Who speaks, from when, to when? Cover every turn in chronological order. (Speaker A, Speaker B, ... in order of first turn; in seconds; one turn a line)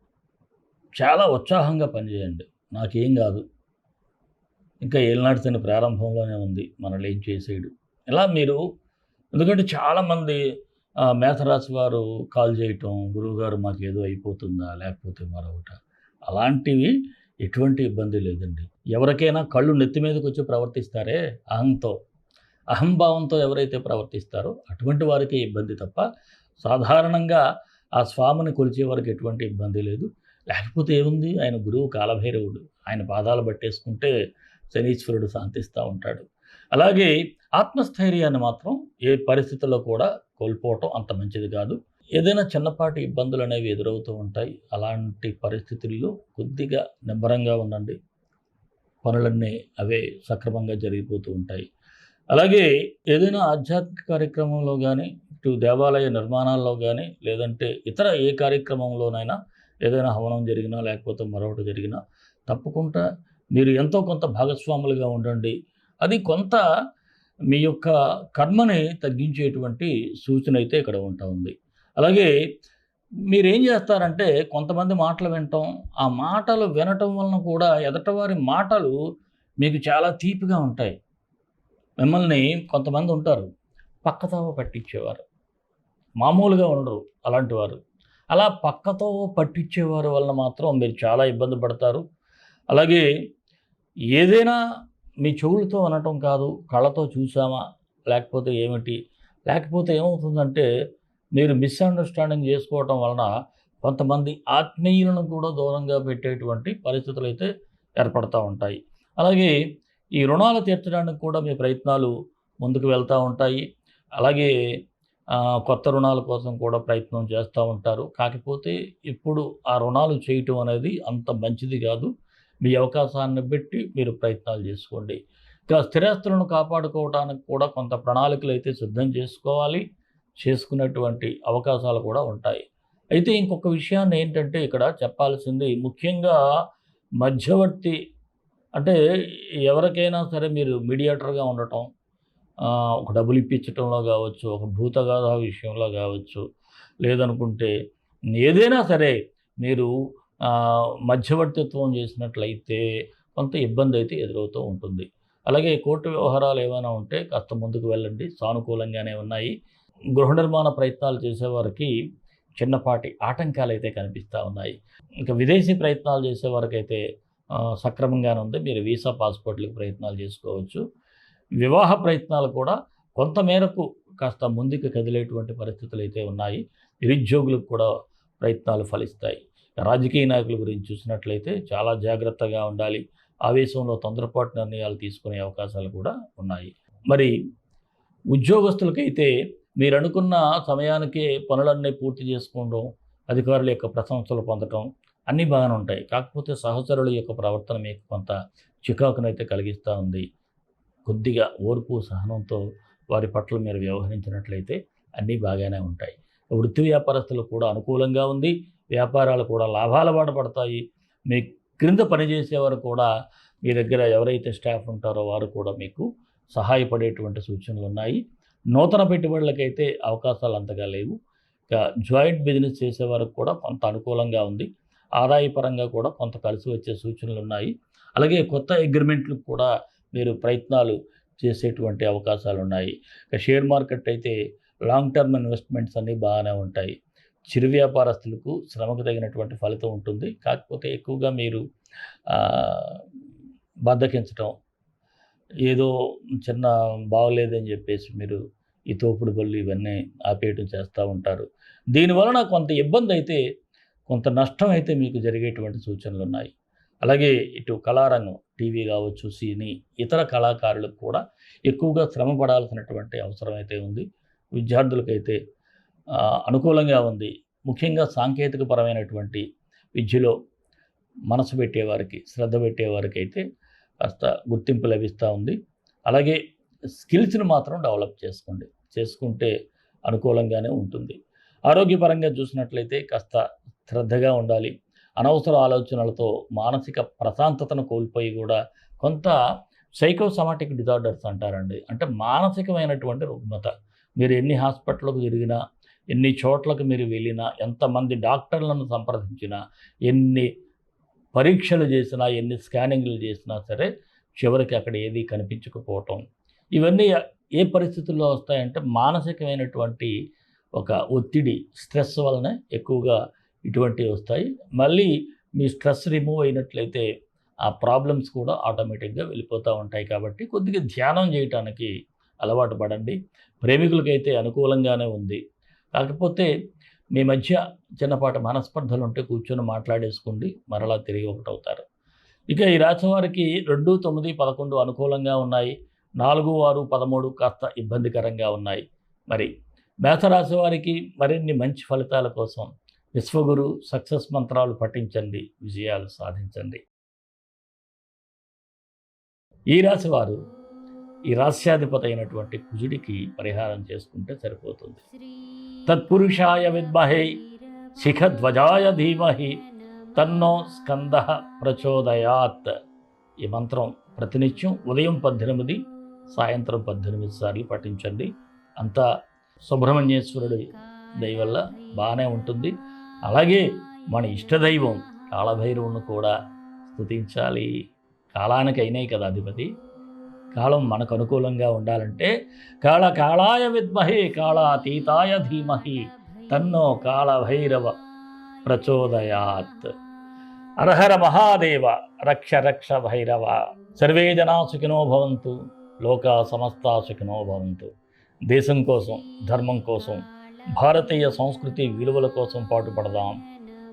Speaker A: 1.0-3.4
Speaker A: 4.8-8.6
Speaker A: 9.3-10.4
Speaker A: 11.1-16.9
Speaker A: 17.4-21.9
Speaker A: 22.7-26.0
Speaker A: 26.6-27.4
Speaker A: 28.0-34.1
Speaker A: 34.7-48.0
Speaker A: 49.0-51.6
Speaker A: 52.3-66.6
Speaker A: 67.5-72.3
Speaker A: 73.3-79.0
Speaker A: 79.6-80.9
Speaker A: 82.0-83.5
Speaker A: 84.0-85.2
Speaker A: 86.2-87.8
Speaker A: 88.3-92.0
Speaker A: 92.7-93.0
Speaker A: 94.2-94.6
Speaker A: 95.2-99.0
Speaker A: 99.5-100.7
Speaker A: 101.4-103.3
Speaker A: 103.8-107.5
Speaker A: 108.0-109.5
Speaker A: 110.2-112.1
Speaker A: 112.6-113.6
Speaker A: 114.2-114.5
Speaker A: 115.7-122.1
Speaker A: 122.6-125.2
Speaker A: 125.7-129.8
Speaker A: 130.4-132.6
Speaker A: 133.1-136.4
Speaker A: 137.2-137.9
Speaker A: 139.7-141.9
Speaker A: 143.0-146.4
Speaker A: 147.0-147.7
Speaker A: 148.4-149.9
Speaker A: 150.5-152.8
Speaker A: 153.4-159.5
Speaker A: 160.2-161.9
Speaker A: 162.6-164.8
Speaker A: 165.3-167.0
Speaker A: 167.8-170.8
Speaker A: 171.6-177.9
Speaker A: 178.4-187.3
Speaker A: 188.3-200.2
Speaker A: 201.1-202.6
Speaker A: 203.1-213.1
Speaker A: 213.6-218.2
Speaker A: 218.7-221.1
Speaker A: 221.7-224.7
Speaker A: 225.2-234.4
Speaker A: 234.9-236.9
Speaker A: 237.5-241.6
Speaker A: 242.3-243.0
Speaker A: 243.9-244.5
Speaker A: 245.7-245.9
Speaker A: 246.4-248.4
Speaker A: 248.9-253.4
Speaker A: 254.1-256.5
Speaker A: 257.1-264.1
Speaker A: 264.6-265.4
Speaker A: 266.4-269.4
Speaker A: 270.0-270.3
Speaker A: 271.3-273.4
Speaker A: 274.1-275.6
Speaker A: 276.1-276.4
Speaker A: 277.0-279.5
Speaker A: 280.1-281.2
Speaker A: 281.7-289.3
Speaker A: 290.0-295.6
Speaker A: 296.1-300.5
Speaker A: 301.3-306.2
Speaker A: 306.8-310.1
Speaker A: 310.8-317.1
Speaker A: 317.7-321.9
Speaker A: 322.4-325.4
Speaker A: 326.0-326.5
Speaker A: 327.2-331.8
Speaker A: 332.5-339.5
Speaker A: 340.1-346.8
Speaker A: 349.7-350.4
Speaker A: 351.3-355.1
Speaker A: 355.9-357.3
Speaker A: 358.0-359.6
Speaker A: 360.2-362.7
Speaker A: 363.4-365.8
Speaker A: 366.3-368.3
Speaker A: 368.8-369.1
Speaker A: 369.7-370.7
Speaker A: 371.2-372.7
Speaker A: 373.3-376.3
Speaker A: 376.9-377.7
Speaker A: 378.3-379.7
Speaker A: 380.5-382.3
Speaker A: 382.8-387.9
Speaker A: 388.7-389.9
Speaker A: 390.8-395.5
Speaker A: 396.1-397.9
Speaker A: 398.5-400.2
Speaker A: 400.7-403.4